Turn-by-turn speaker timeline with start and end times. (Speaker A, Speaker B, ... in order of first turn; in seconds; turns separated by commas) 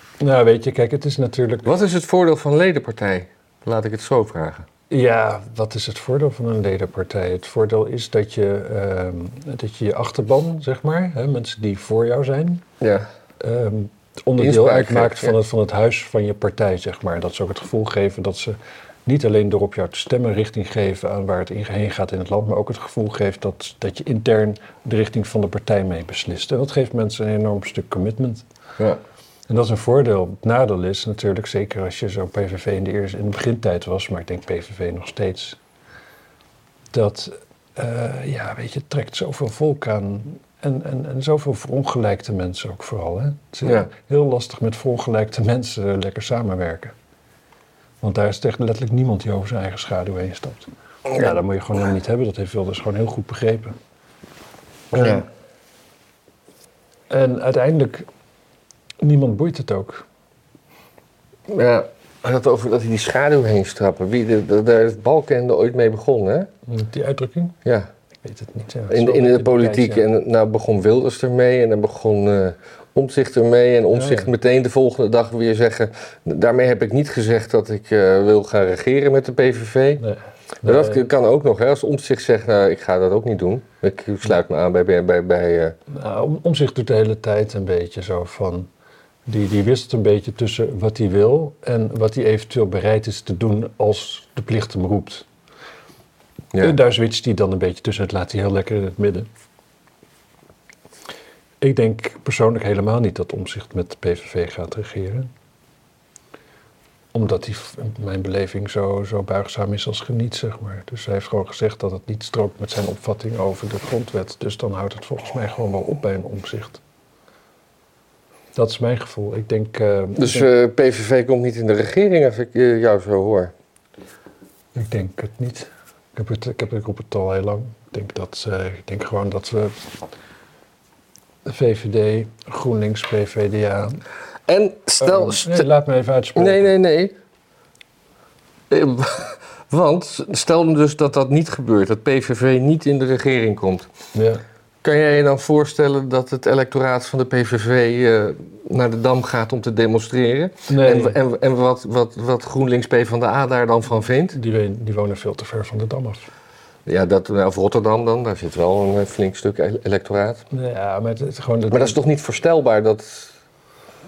Speaker A: 0.2-1.7, Speaker B: 1.6-4.7, Speaker A: 4.9-12.7, Speaker B: 12.8-13.1, Speaker A: 13.4-28.4, Speaker B: 14.4-15.4, Speaker A: 29.5-35.6, Speaker A: 36.9-47.0, Speaker B: 43.6-43.9, Speaker A: 48.0-53.8, Speaker A: 54.9-55.2, Speaker B: 54.9-55.3, Speaker A: 57.1-58.1, Speaker A: 59.0-60.0, Speaker B: 61.5-66.5, Speaker A: 66.7-67.6, Speaker B: 67.7-67.9, Speaker A: 68.2-70.0, Speaker B: 68.9-80.0, Speaker A: 73.9-74.3, Speaker A: 80.0-81.0, Speaker B: 80.6-85.8, Speaker A: 85.9-88.7, Speaker A: 89.3-95.3, Speaker A: 96.6-99.3, Speaker A: 101.6-105.3, Speaker A: 107.1-116.8, Speaker A: 118.5-120.5, Speaker B: 120.2-123.5, Speaker A: 124.8-129.8, Speaker A: 131.4-134.0, Speaker B: 134.5-135.7, Speaker A: 135.0-136.7, Speaker B: 136.4-137.2, Speaker B: 138.7-143.9, Speaker A: 144.1-144.4, Speaker B: 144.8-154.4, Speaker A: 150.7-151.2, Speaker A: 154.3-156.3, Speaker B: 156.9-160.4, Speaker A: 160.5-162.0, Speaker B: 161.7-163.3